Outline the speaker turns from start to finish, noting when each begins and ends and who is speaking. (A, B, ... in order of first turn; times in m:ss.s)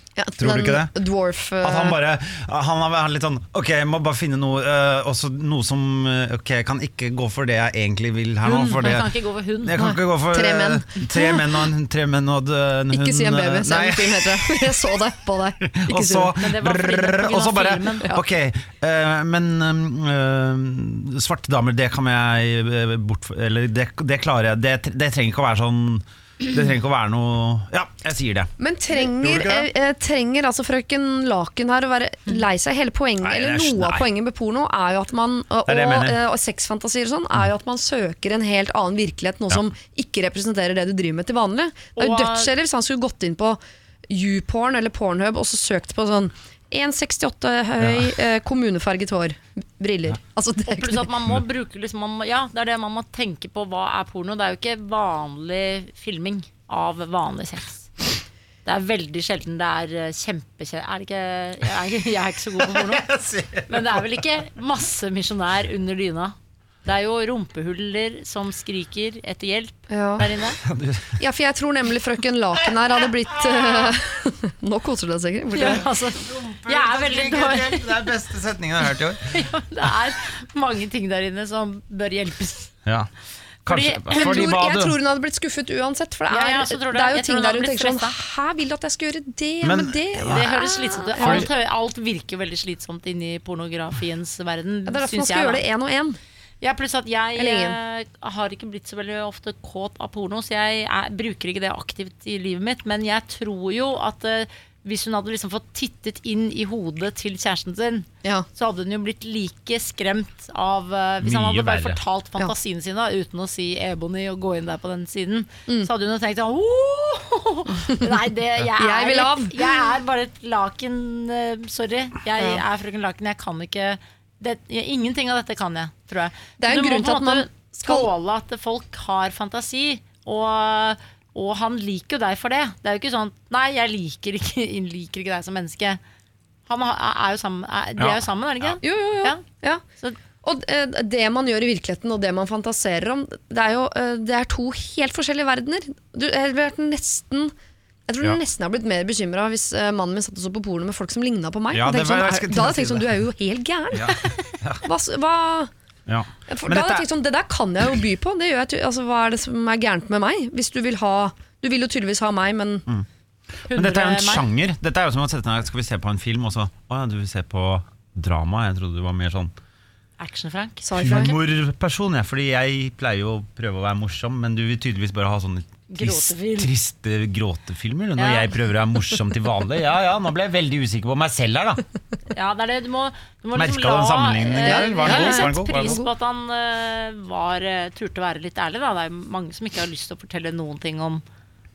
0:00.2-0:02.0 A
0:00.4-0:00.9 B
0:01.6-0:15.0 B
0:08.4-0:09.8 C
0:09.8-0:11.7 A
0:12.9-0:16.4 A
0:15.7-0:29.7 B
0:16.4-0:18.2 C
0:28.6-0:51.1 A
0:33.2-0:34.1 B
0:35.7-0:36.2 B
0:42.0-0:42.5 C
0:50.7-0:58.0 C
0:58.6-1:03.1 C
1:02.6-1:04.2 B
1:03.7-1:10.6 C
1:09.9-1:10.2 A
1:10.6-1:11.2 B
1:11.2-1:15.8 A
1:13.3-1:13.8 B
1:15.5-1:18.2 C
1:15.6-1:19.4 B
1:19.3-1:22.8 C
1:23.7-1:24.6 C
1:23.7-1:25.0 B
1:24.1-1:31.5 A
1:26.3-1:28.2 C
1:29.6-1:30.5 B
1:30.2-1:35.6 C
1:31.2-1:31.5 B
1:34.9-1:36.2 A
1:36.6-2:16.0 C
1:37.4-1:37.8 A
1:51.2-1:52.0 B
1:58.8-1:59.6 A
2:06.6-2:08.1 A
2:16.7-2:19.4 C
2:18.0-2:18.8 B
2:18.8-2:19.8 A
2:20.4-2:27.5 A
2:28.1-2:34.1 A
2:31.7-2:33.1 B
2:33.9-2:34.8 B
2:34.1-2:34.5 C
2:34.8-2:35.7 A
2:36.1-2:37.1 B
2:36.5-2:42.9 A
2:43.7-2:44.5 C
2:43.7-2:49.5 B
2:50.2-2:51.3 C
2:50.8-2:51.3 A
2:51.0-3:01.8 B
2:55.9-2:56.7 C
2:58.2-2:58.6 C
3:02.3-3:11.2 C
3:03.6-3:06.0 B
3:04.6-3:06.1 A